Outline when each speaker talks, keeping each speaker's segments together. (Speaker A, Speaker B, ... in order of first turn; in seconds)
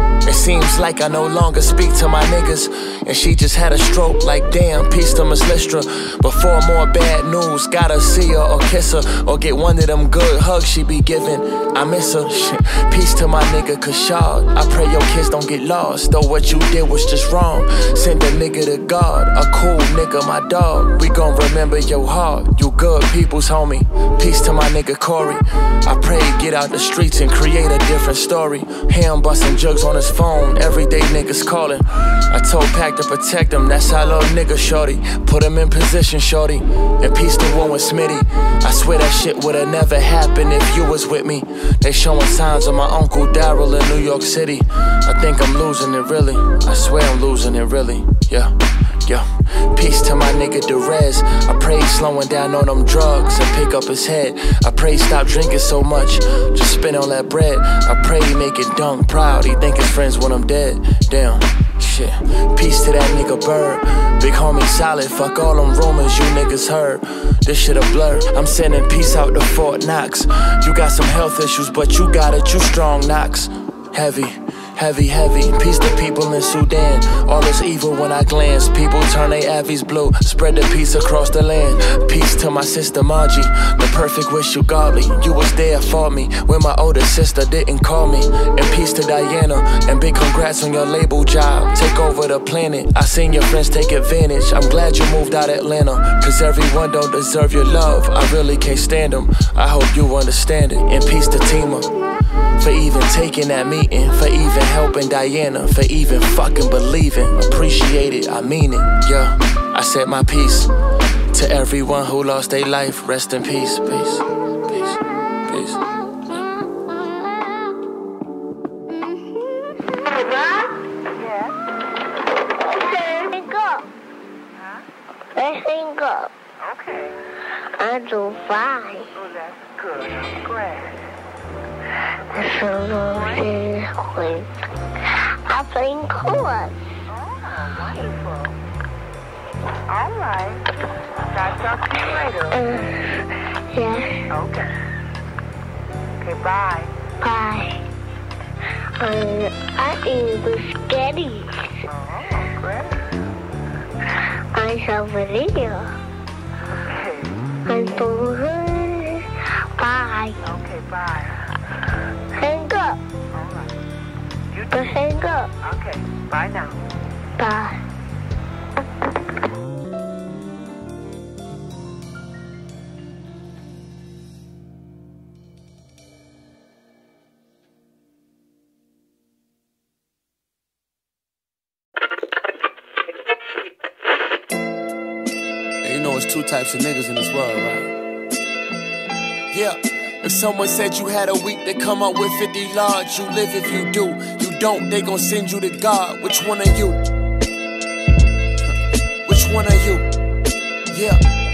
Speaker A: 0.2-48.5, 49.0-101.9, 102.6-110.7, 111.3-115.8, 185.9-187.8, 189.5-197.0, 199.2-200.0, 200.9-201.2
Speaker B: 120.0-120.7, 122.8-123.8, 125.3-126.3, 127.8-129.1, 132.3-134.5, 135.5-136.8, 142.5-143.1, 143.7-144.2, 147.2-147.8, 149.0-151.7, 154.5-155.9, 157.7-160.4, 162.4-163.0, 164.7-165.5, 167.4-167.8
Speaker C: 121.1-121.6, 124.5-124.8, 126.6-127.2, 129.1-131.0, 133.1-133.5, 137.1-138.6, 139.9-140.6, 141.3-142.7, 144.3-144.7, 146.2-146.9, 151.9-153.1, 156.8-157.4, 160.4-161.4, 163.3-163.7, 164.5-165.0, 165.6-166.8